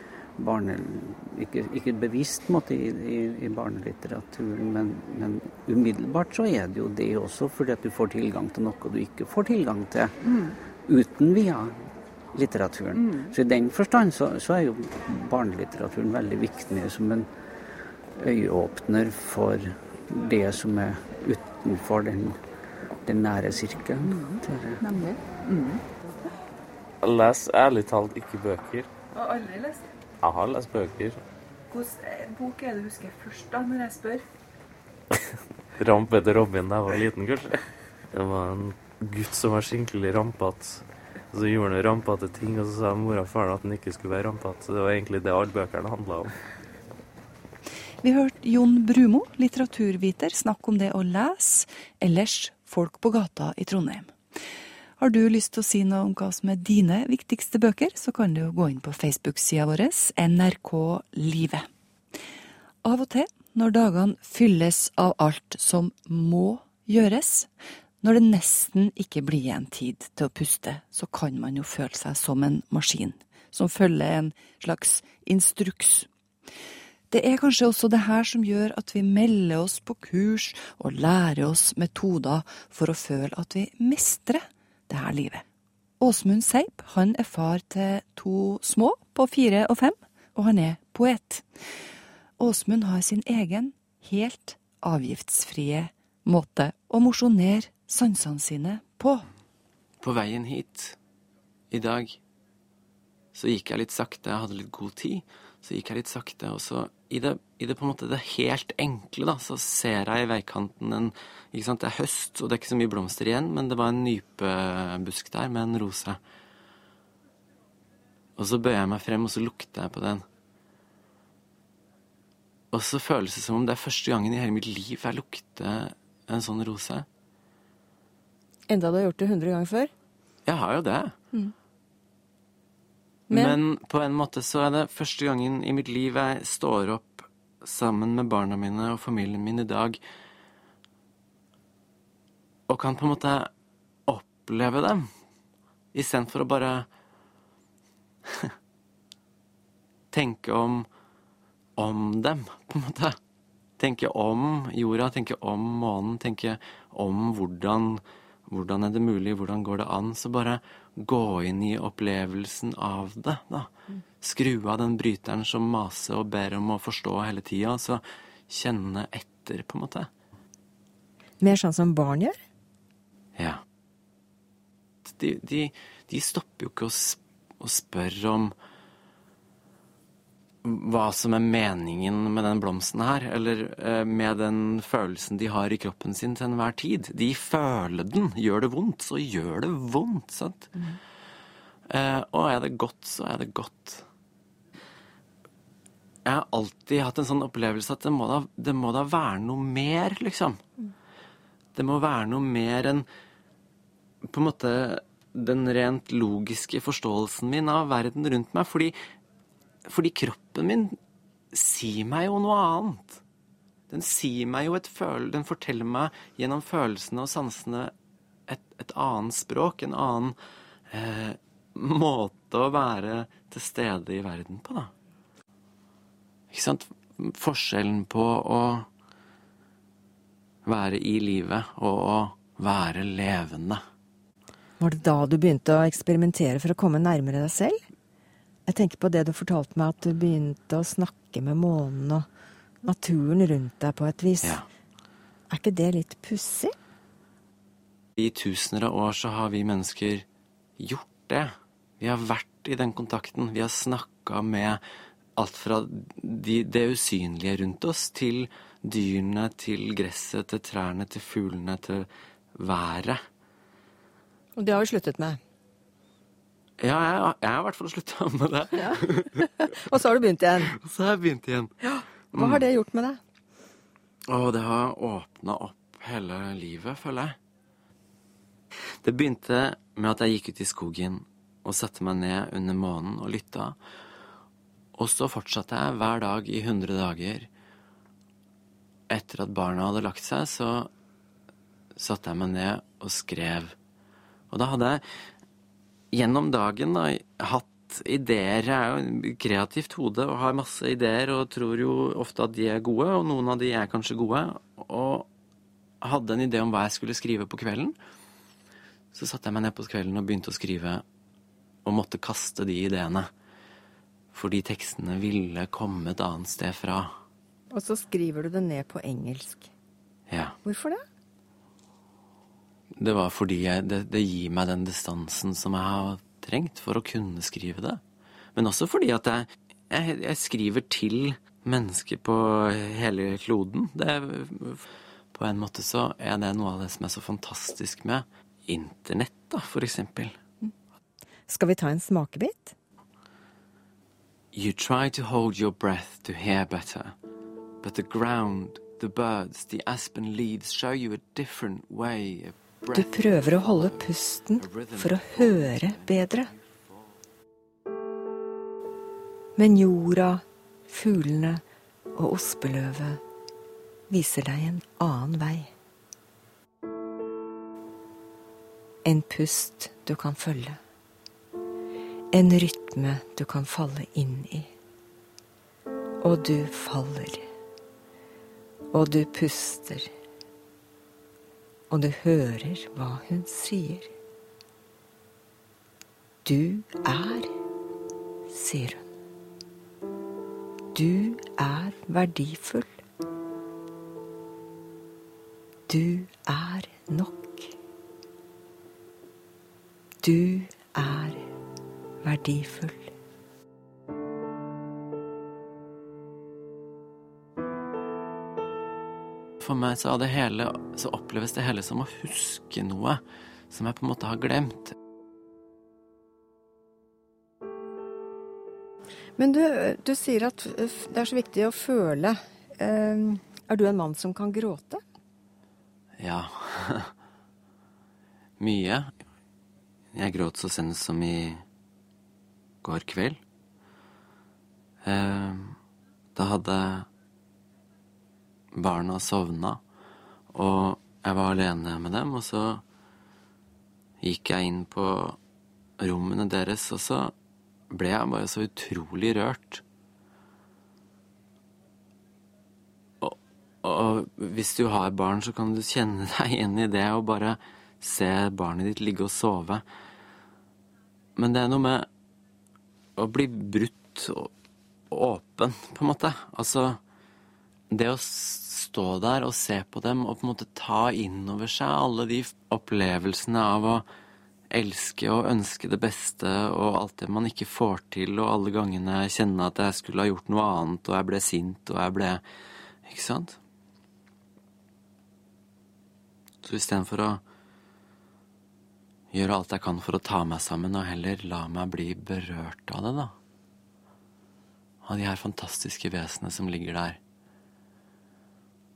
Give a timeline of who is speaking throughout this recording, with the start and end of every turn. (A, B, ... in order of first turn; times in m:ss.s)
0:00.4-0:10.2 A
0:10.2-0:10.6 B
0:10.8-0:17.3 A
0:12.9-0:13.3 B
0:18.2-0:22.4 A
0:23.0-0:24.8 A
0:24.0-0:25.8 B
0:27.0-0:28.9 C
0:29.1-0:29.8 B
0:30.2-0:31.2 C
0:31.7-0:34.2 B
0:35.8-0:37.6 C
0:38.1-0:46.4 C
0:48.0-0:54.2 D
0:55.0-1:01.7 D
1:02.8-1:07.5 D
1:08.0-1:16.1 D
1:17.1-1:25.4 D
1:26.0-1:31.5 D
1:32.4-1:39.3 D
1:40.0-1:41.0 E
1:41.7-1:42.2 E
1:43.3-1:56.2 E
1:58.4-2:00.2 E
2:02.7-2:07.1 E
2:08.7-2:09.9 F
2:10.5-2:11.2 E
2:13.3-2:13.6 F
2:13.3-2:20.0 E
2:22.7-2:23.5 E
2:24.1-2:25.1 E
2:25.9-2:26.9 E
2:30.1-2:30.9 E
2:31.8-2:33.2 E
2:33.8-2:50.1 E
2:51.4-2:52.4 F
2:53.4-2:53.6 E
2:55.1-2:58.6 E
3:00.6-3:10.7 E
3:11.9-3:14.0 E
3:16.2-3:20.6 E
3:21.8-3:23.1 E
3:24.2-3:29.0 E
3:29.9-3:31.0 E
3:31.5-3:33.2 E
3:33.9-3:37.9 E
3:38.5-3:40.4 E
3:40.9-3:44.9 E
3:46.5-3:48.9 E
3:50.7-3:53.8 E
3:54.8-3:57.8 F
3:58.7-4:02.3 F
4:02.8-4:04.6 F
4:05.5-4:06.8 F
4:08.2-4:10.3 E
4:10.8-4:14.8 E
4:15.4-4:23.2 E
4:24.6-4:25.4 F
4:26.8-4:29.4 E
4:28.8-4:30.7 F
4:30.7-4:31.7 E
4:31.8-4:33.2 F
4:32.3-4:32.6 E
4:34.3-4:37.4 E
4:39.0-4:43.8 E
4:45.0-4:47.5 E
4:49.1-4:50.9 E
4:52.0-4:53.8 E
4:54.5-4:55.0 E
4:56.1-5:05.3 E
5:06.0-5:08.0 E
5:09.1-5:11.0 E
5:11.8-5:13.3 E
5:14.3-5:17.1 E
5:17.7-5:19.7 F
5:20.3-5:20.6 E
5:20.6-5:21.0 F
5:23.0-5:28.0 E
5:28.6-5:40.4 E
5:41.5-5:42.7 F
5:44.5-5:47.2 E
5:47.8-5:54.1 E
5:52.9-5:56.5 F
5:54.6-5:56.1 E
5:59.6-6:01.6 F
6:02.2-6:03.2 F
6:04.1-6:05.7 F
6:09.0-6:10.8 F
6:12.3-6:14.7 F
6:16.2-6:17.5 F
6:18.9-6:20.1 F
6:21.9-6:24.1 F
6:26.4-6:27.5 F
6:28.5-6:29.1 F
6:30.9-6:33.0 F
6:35.9-6:37.7 F
6:40.2-6:41.5 F
6:42.2-6:43.1 F
6:49.6-6:55.0 E
6:59.4-7:05.0 F
7:06.2-7:07.1 E
7:08.6-7:09.1 E
7:10.1-7:11.6 E
7:12.8-7:13.4 E
7:15.0-7:15.8 E
7:16.4-7:17.1 E
7:18.7-7:19.8 E
7:20.5-7:22.8 E
7:24.2-7:25.4 E
7:26.0-7:27.3 E
7:27.9-7:29.8 E
7:33.2-7:39.8 E
7:41.4-7:42.1 E
7:43.2-7:44.5 E
7:45.1-7:47.0 E
7:47.9-7:54.0 E
7:54.7-8:02.4 E
8:03.0-8:03.6 E
8:06.6-8:07.4 E
8:09.3-8:13.3 E
8:15.0-8:17.2 E